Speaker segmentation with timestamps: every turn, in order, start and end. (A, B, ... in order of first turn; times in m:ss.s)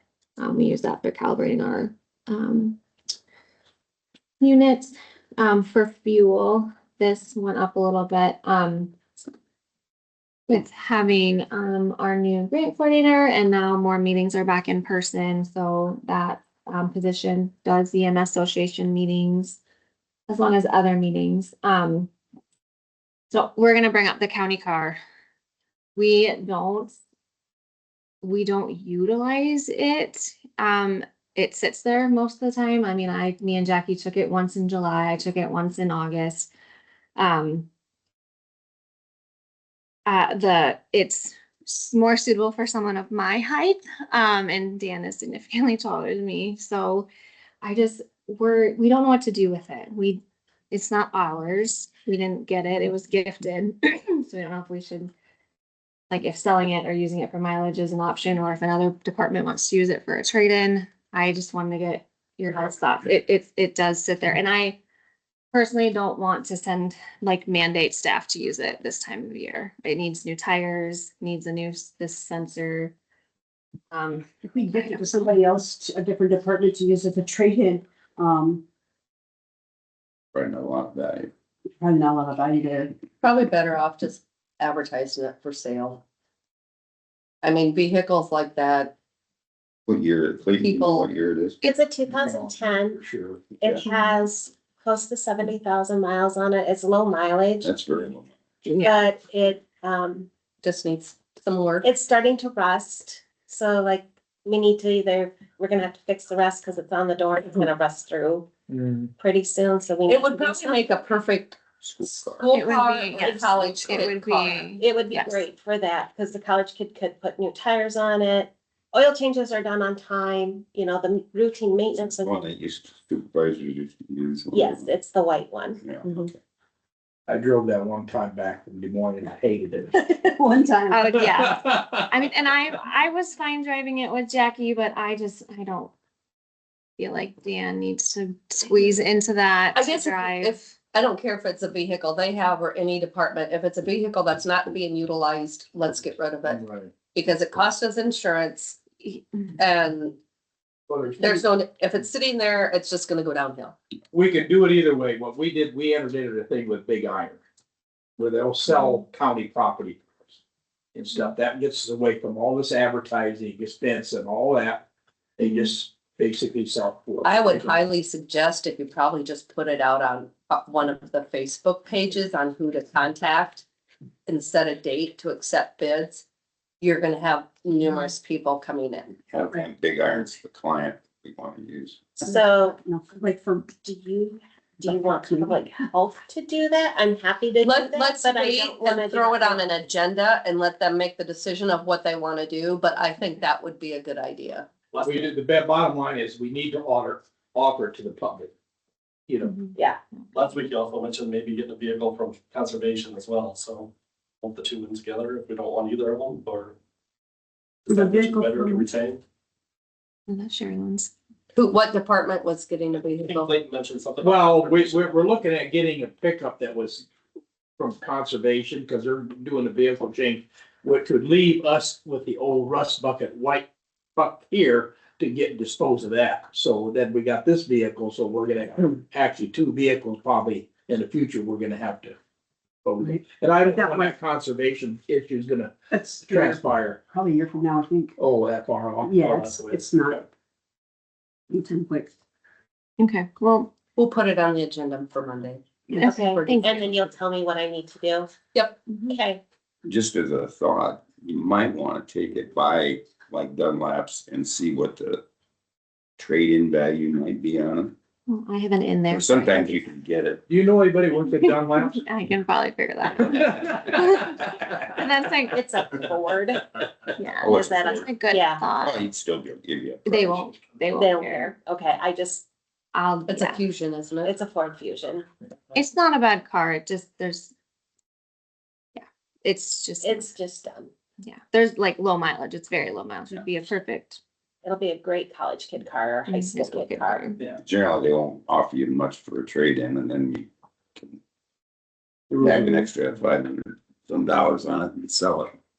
0:00.4-0:02.8 A
0:04.4-0:09.0 A
0:10.5-0:19.6 A
0:20.3-0:22.1 A
0:23.3-0:25.0 A
0:26.0-0:27.0 A
0:28.2-0:36.5 A
0:37.2-0:37.7 A
0:40.0-0:47.1 A
0:47.6-0:55.1 A
0:56.1-1:04.8 A
1:05.5-1:12.9 A
1:13.9-1:15.1 A
1:14.5-1:18.6 B
1:20.3-1:21.3 C
1:21.8-1:22.9 B
1:23.2-1:26.0 D
1:27.4-1:28.9 D
1:29.9-1:31.6 C
1:30.6-1:31.1 D
1:31.6-1:33.0 E
1:32.1-1:33.5 F
1:33.6-1:37.7 E
1:37.6-1:38.3 C
1:38.6-1:39.0 A
1:38.8-1:40.3 E
1:40.6-1:41.9 D
1:41.8-1:48.5 E
1:48.7-1:49.1 F
1:49.2-1:50.9 E
1:50.0-1:54.6 D
1:51.8-1:52.5 C
1:52.5-1:55.4 A
1:54.0-2:02.4 E
2:02.2-2:04.9 C
2:04.5-2:06.3 E
2:05.8-2:06.3 C
2:07.3-2:10.0 F
2:10.0-2:11.2 B
2:10.9-2:15.9 A
2:11.3-2:12.0 F
2:17.0-2:20.7 A
2:19.7-2:26.6 D
2:26.4-2:26.9 F
2:27.1-2:28.8 D
2:29.6-2:30.2 D
2:30.9-2:31.4 F
2:31.2-2:33.8 D
2:34.1-2:37.4 F
2:38.2-2:40.3 F
2:40.9-2:44.9 F
2:45.4-2:47.7 F
2:47.2-2:53.6 D
2:54.3-2:56.2 D
2:56.8-2:59.2 D
2:59.3-3:02.2 C
3:02.2-3:02.8 E
3:02.2-3:03.7 B
3:03.8-3:09.7 E
3:04.8-3:05.8 B
3:07.6-3:14.7 D
3:14.9-3:15.3 G
3:15.0-3:18.5 F
3:19.3-3:19.6 F
3:19.4-3:19.7 A
3:20.3-3:26.8 G
3:27.9-3:29.2 G
3:27.9-3:28.8 B
3:30.3-3:31.1 A
3:31.5-3:33.6 D
3:33.2-3:35.4 G
3:34.2-3:37.0 F
3:37.8-3:52.2 F
3:52.8-3:57.0 F
3:53.0-3:54.2 B
3:55.9-3:58.1 B
3:58.2-3:59.3 F
3:59.0-4:00.2 B
3:59.2-4:00.2 G
4:01.5-4:02.1 B
4:03.0-4:03.7 A
4:04.0-4:06.9 D
4:05.9-4:06.8 A
4:06.0-4:08.3 E
4:08.5-4:08.8 D
4:09.1-4:09.4 E
4:09.8-4:15.2 C
4:16.2-4:17.9 C
4:18.3-4:19.8 A
4:19.1-4:20.4 C
4:20.5-4:22.0 F
4:21.3-4:26.0 A
4:23.4-4:23.9 F
4:25.5-4:26.6 E
4:27.2-4:29.0 A
4:27.4-4:28.1 C
4:27.5-4:28.6 E
4:28.8-4:30.4 C
4:30.1-4:31.5 A
4:31.0-4:32.4 E
4:32.9-4:33.6 A
4:33.3-4:34.4 D
4:34.2-4:35.3 E
4:35.7-4:37.5 A
4:39.0-4:40.3 A
4:40.0-4:40.9 E
4:41.2-4:44.2 A
4:44.6-4:47.4 E
4:46.3-4:47.4 A
4:47.6-4:51.2 C
4:52.3-4:52.9 F
4:52.4-4:55.5 C